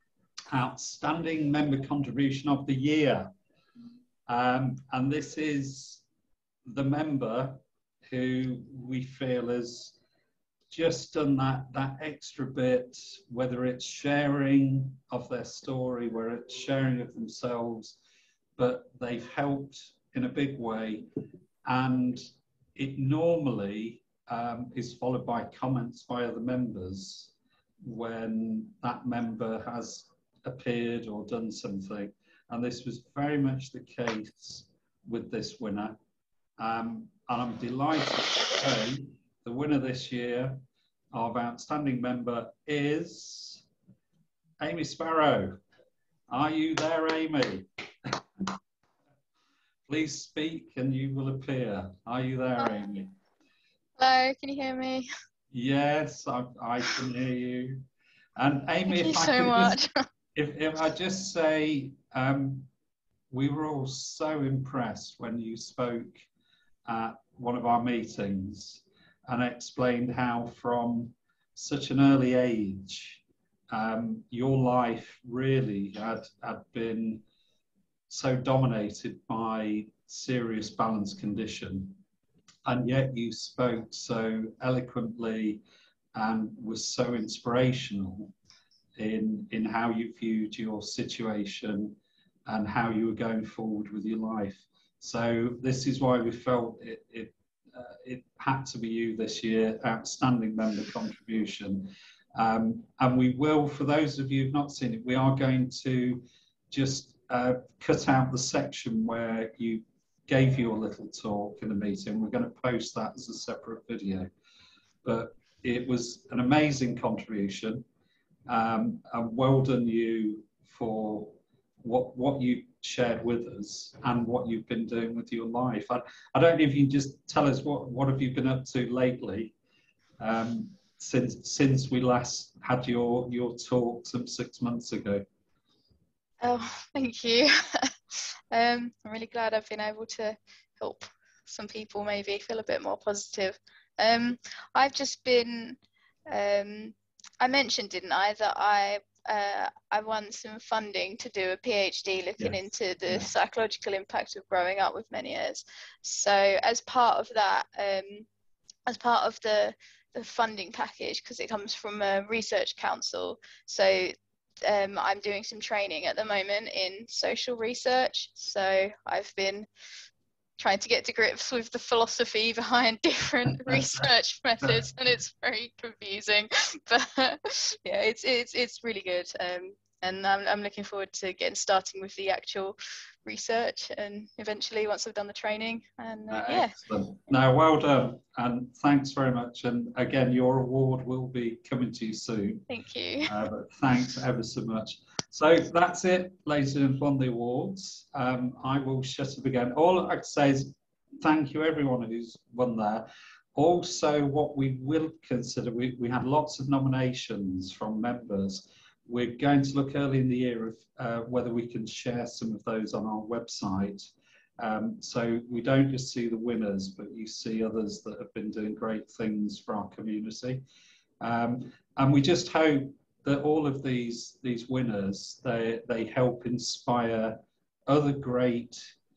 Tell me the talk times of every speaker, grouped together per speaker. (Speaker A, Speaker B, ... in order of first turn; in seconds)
Speaker A: 0.5-3.3, 4.3-6.0, 6.7-10.0, 10.7-18.0, 18.6-21.1, 21.6-22.2, 22.8-36.0, 36.6-40.6, 41.1-43.6, 44.6-45.6, 46.3-48.5, 49.9-53.1, 55.5-57.8, 58.4-59.8, 60.4-62.7, 63.3-66.3, 66.9-77.2, 78.1-82.0, 82.7-85.6, 86.2-88.3, 89.0-114.3, 115.0-117.8, 118.5-129.6, 130.2-135.2, 152.4-153.3, 173.7-174.1, 174.6-174.9, 186.3-192.7, 193.3-220.6, 221.2-228.9
Speaker B: 54.0-55.1, 58.9-60.1, 136.4-158.3, 158.9-169.7, 170.6-186.8, 192.7-193.3